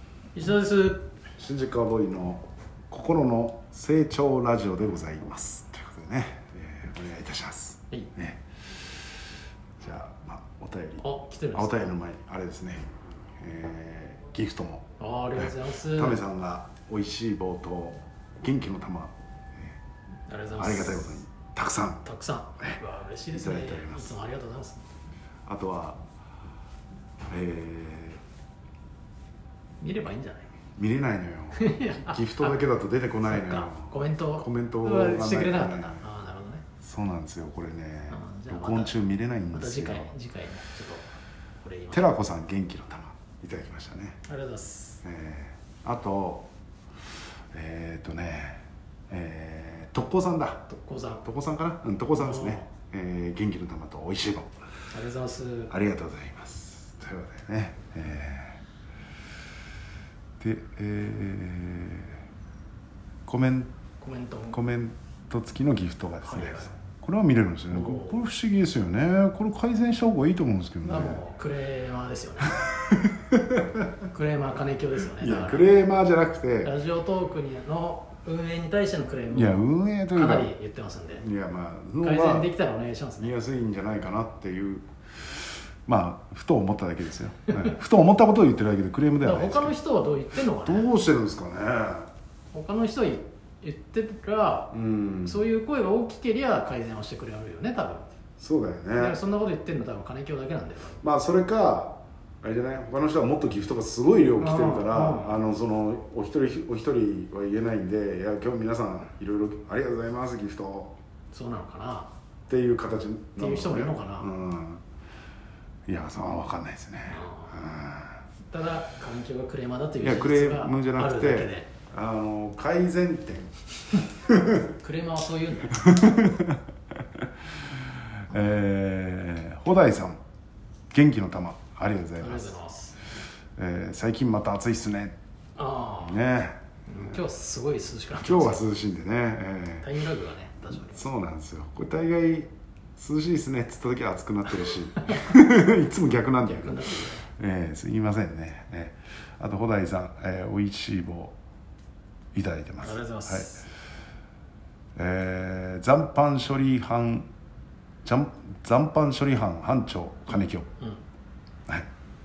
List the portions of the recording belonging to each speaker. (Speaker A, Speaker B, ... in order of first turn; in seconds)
Speaker A: 0.3-1.1, 11.0-11.9, 15.0-16.2, 20.3-21.1, 22.0-24.8, 29.8-30.5, 31.6-32.6, 33.2-36.6, 38.1-39.0, 39.5-41.0, 41.6-42.1, 44.3-45.0, 50.7-51.2, 52.1-52.6, 54.9-55.7, 64.0-64.6, 66.2-66.7, 67.7-68.2, 70.8-72.5, 74.1-75.7, 76.6-81.2, 82.0-83.3, 89.2-90.9, 92.5-94.7, 95.2-98.1, 99.0-101.0, 104.4-105.3, 111.3-112.1, 113.4-114.3, 117.1-117.5, 118.5-121.7, 124.8-126.1, 132.2-133.0, 135.6-136.2, 136.9-138.6, 139.8-141.0, 146.4-147.2, 152.8-153.6
Speaker B: 1.4-8.8, 9.8-12.8, 13.4-19.8, 20.6-22.1, 23.3-24.1, 25.4-26.0, 27.3-28.2, 30.8-36.0, 36.8-40.1, 41.9-44.2, 45.0-46.5, 47.5-50.7, 51.2-54.5, 55.7-58.6, 60.4-62.2, 63.2-63.7, 64.5-71.2, 72.6-73.8, 75.2-76.7, 79.3-80.5, 81.2-82.5, 83.2-84.8, 85.8-89.8, 90.6-92.1, 94.7-95.4, 98.4-99.2, 101.0-110.9, 112.5-114.8, 115.9-118.2, 120.0-123.5, 124.3-124.7, 125.8-126.6, 128.3-130.2, 130.9-132.6, 133.6-135.1, 136.0-137.2, 138.2-139.9, 140.7-151.3, 152.3-153.5, 155.0-157.3, 158.0-160.7